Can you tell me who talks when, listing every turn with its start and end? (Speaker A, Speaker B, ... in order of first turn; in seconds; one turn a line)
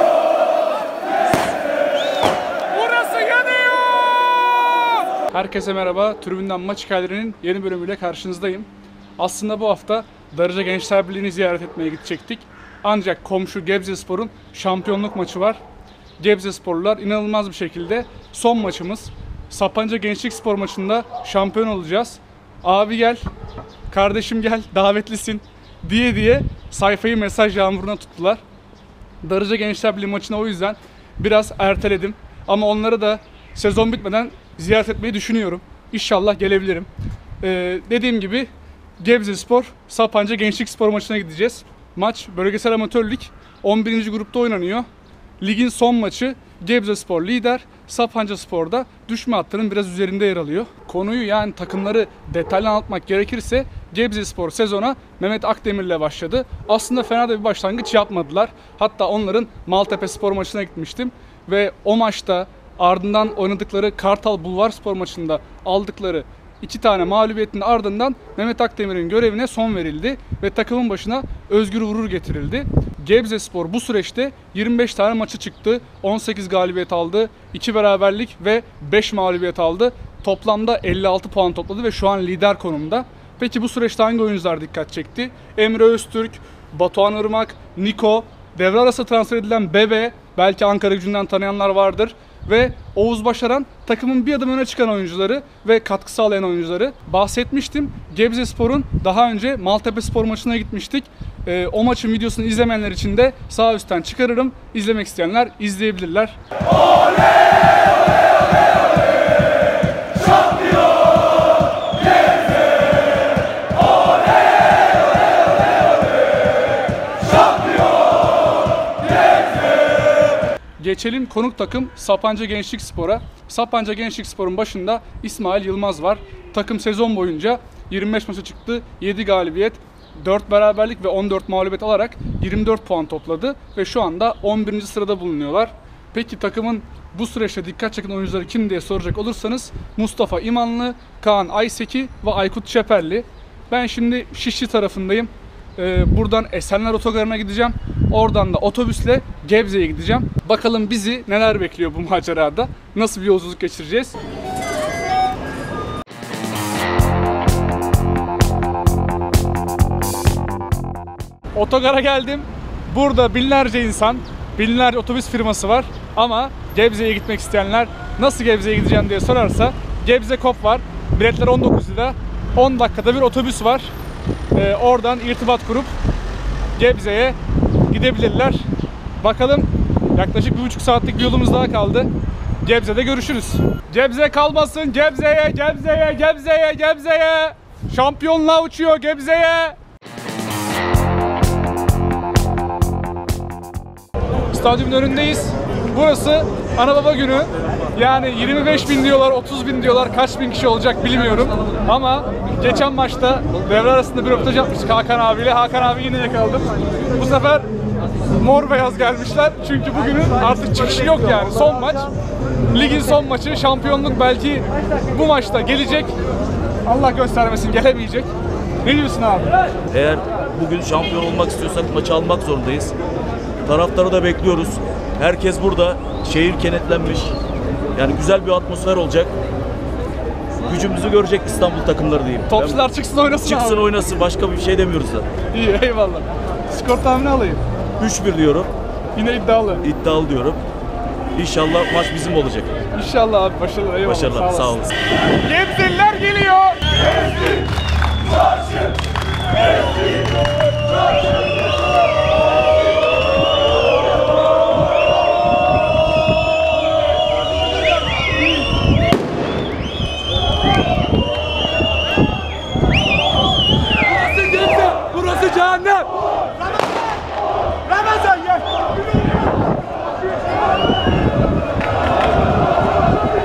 Speaker A: 2.7-4.1
Speaker A: 4.9-15.6
Speaker A: 16.2-23.2
Speaker A: 23.9-28.4
Speaker A: 29.2-36.9
Speaker A: 37.4-44.9
Speaker A: 45.4-106.4
Speaker A: 120.8-154.2
Speaker A: 161.5-173.9
Speaker A: 174.5-175.9
Speaker A: 176.8-178.7
Speaker A: 179.2-182.1
Speaker A: 182.6-189.8
Speaker A: 194.5-207.7
Speaker A: 208.3-212.1
Speaker A: 212.7-216.1
Speaker A: 216.8-218.3
Speaker A: 218.8-219.5
Speaker B: 219.9-222.9
Speaker B: 223.6-227.3
Speaker B: 227.9-229.3
Speaker B: 230.6-232.8
Speaker A: 232.5-234.1
Speaker B: 233.4-235.3
Speaker A: 235.5-237.6
Speaker B: 238.0-238.7
Speaker A: 239.2-239.8
Speaker B: 239.8-240.6
Speaker B: 241.3-242.8
Speaker A: 242.9-244.8
Speaker B: 244.0-245.0
Speaker A: 245.4-246.9
Speaker A: 264.5-266.1
Speaker A: 268.2-268.6